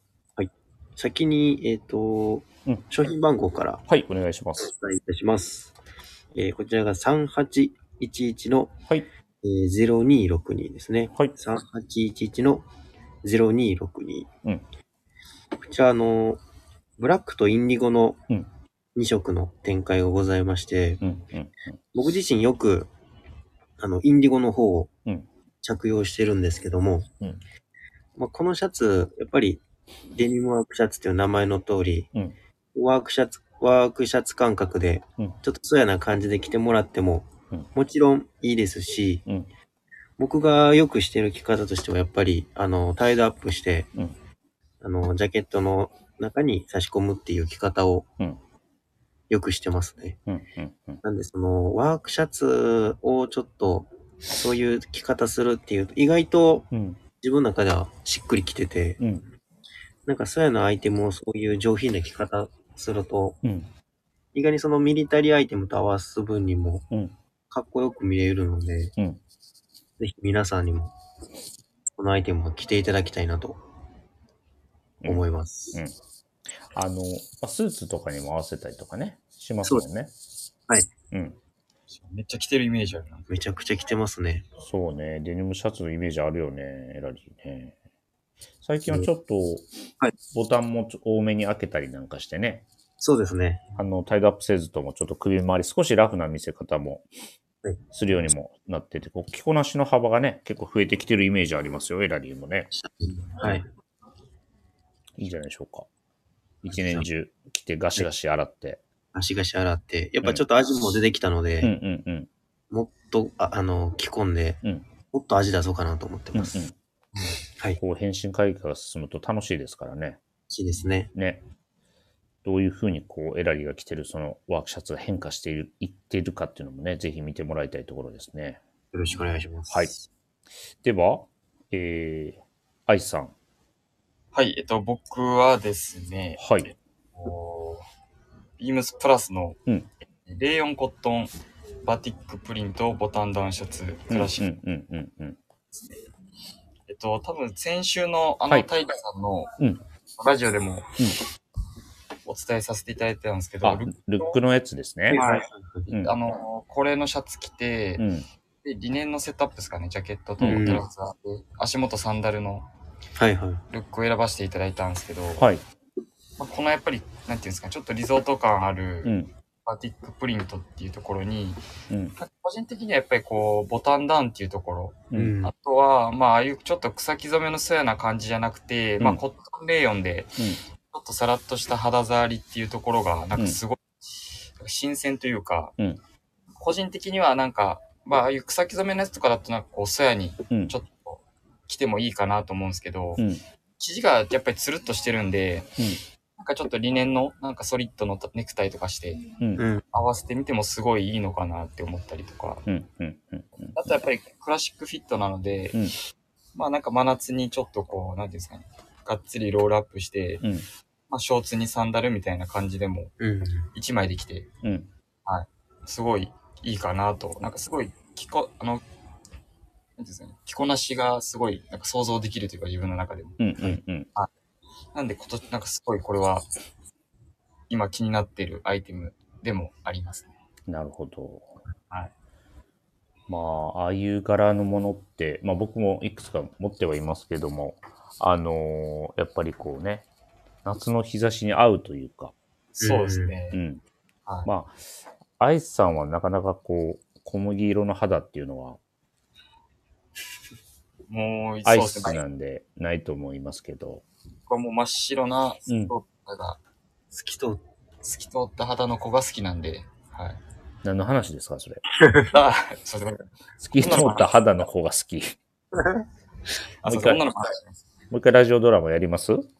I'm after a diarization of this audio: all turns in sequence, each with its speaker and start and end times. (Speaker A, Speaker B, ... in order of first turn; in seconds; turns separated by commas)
Speaker A: 0.4-3.8, Speaker B: 3.9-4.7, Speaker A: 4.6-5.7, Speaker A: 6.3-8.7, Speaker A: 9.4-12.6, Speaker A: 13.2-14.3, Speaker A: 15.6-16.4, Speaker A: 17.0-18.2, Speaker A: 18.9-21.0, Speaker B: 21.0-21.8, Speaker A: 21.9-22.9, Speaker A: 23.8-24.9, Speaker A: 25.6-27.1, Speaker A: 28.1-32.1, Speaker A: 32.7-39.2, Speaker A: 40.2-43.9, Speaker A: 44.8-48.1, Speaker A: 49.3-50.2, Speaker B: 50.3-51.0, Speaker A: 51.0-56.7, Speaker B: 56.7-57.0, Speaker A: 57.2-59.0, Speaker B: 59.0-59.2, Speaker A: 60.0-63.4, Speaker B: 63.4-63.7, Speaker A: 64.3-66.9, Speaker A: 67.5-68.9, Speaker A: 70.0-70.9, Speaker A: 72.0-73.6, Speaker B: 75.0-75.9, Speaker A: 75.0-75.8, Speaker B: 76.7-80.1, Speaker B: 81.1-81.4, Speaker C: 81.9-83.3, Speaker A: 83.3-84.5, Speaker B: 84.6-87.8, Speaker B: 88.6-89.7, Speaker B: 90.3-92.7, Speaker A: 93.0-93.6, Speaker B: 93.8-97.1, Speaker B: 97.9-102.7, Speaker A: 102.7-103.6, Speaker B: 105.2-105.9, Speaker B: 106.6-108.8, Speaker A: 106.8-107.0, Speaker A: 109.1-111.7, Speaker B: 111.6-112.3, Speaker A: 112.7-116.7, Speaker B: 116.3-116.7, Speaker B: 117.8-120.2, Speaker A: 120.5-121.1, Speaker B: 121.1-121.4, Speaker B: 122.4-128.6, Speaker A: 128.9-130.0, Speaker B: 129.7-129.9, Speaker B: 130.8-133.3, Speaker C: 134.3-137.8, Speaker B: 136.4-136.7, Speaker C: 138.6-139.6, Speaker C: 140.2-141.3, Speaker C: 141.8-144.4, Speaker B: 144.1-145.4, Speaker C: 146.9-149.5, Speaker C: 150.2-151.0, Speaker C: 152.2-154.3, Speaker B: 153.6-155.2, Speaker A: 155.1-155.9, Speaker C: 155.1-158.1, Speaker B: 155.9-156.1, Speaker B: 158.0-158.2, Speaker C: 158.6-162.7, Speaker B: 160.4-160.8, Speaker A: 160.4-160.8, Speaker A: 163.2-163.6, Speaker C: 163.7-165.4, Speaker B: 165.4-165.6, Speaker C: 166.4-171.6, Speaker B: 169.0-169.3, Speaker B: 171.9-172.1, Speaker C: 172.2-185.7, Speaker A: 175.1-175.5, Speaker C: 186.6-193.2, Speaker B: 193.2-193.4, Speaker C: 193.8-195.8, Speaker C: 196.4-199.3, Speaker A: 199.6-199.8, Speaker C: 199.9-202.6, Speaker B: 202.7-203.8, Speaker C: 203.7-205.9, Speaker C: 206.5-210.5, Speaker B: 210.4-210.7, Speaker C: 211.1-213.1, Speaker A: 213.2-213.7, Speaker C: 213.7-214.5, Speaker B: 214.6-214.9, Speaker C: 215.2-218.8, Speaker C: 220.0-223.5, Speaker B: 223.4-224.1, Speaker C: 224.9-226.5, Speaker C: 227.7-230.3, Speaker B: 230.7-231.5, Speaker B: 233.3-240.1, Speaker B: 240.6-242.3, Speaker C: 242.8-243.6, Speaker A: 242.8-243.3, Speaker B: 243.5-243.8, Speaker B: 244.4-244.8, Speaker B: 245.4-248.8, Speaker C: 251.1-252.2, Speaker B: 251.6-254.0, Speaker C: 254.5-256.6, Speaker B: 255.7-255.9, Speaker A: 257.1-257.6, Speaker C: 258.0-260.4, Speaker B: 260.8-261.8, Speaker C: 262.3-263.2, Speaker B: 263.6-265.4, Speaker C: 263.7-264.3, Speaker C: 266.8-267.8, Speaker B: 266.8-267.2, Speaker B: 268.1-269.5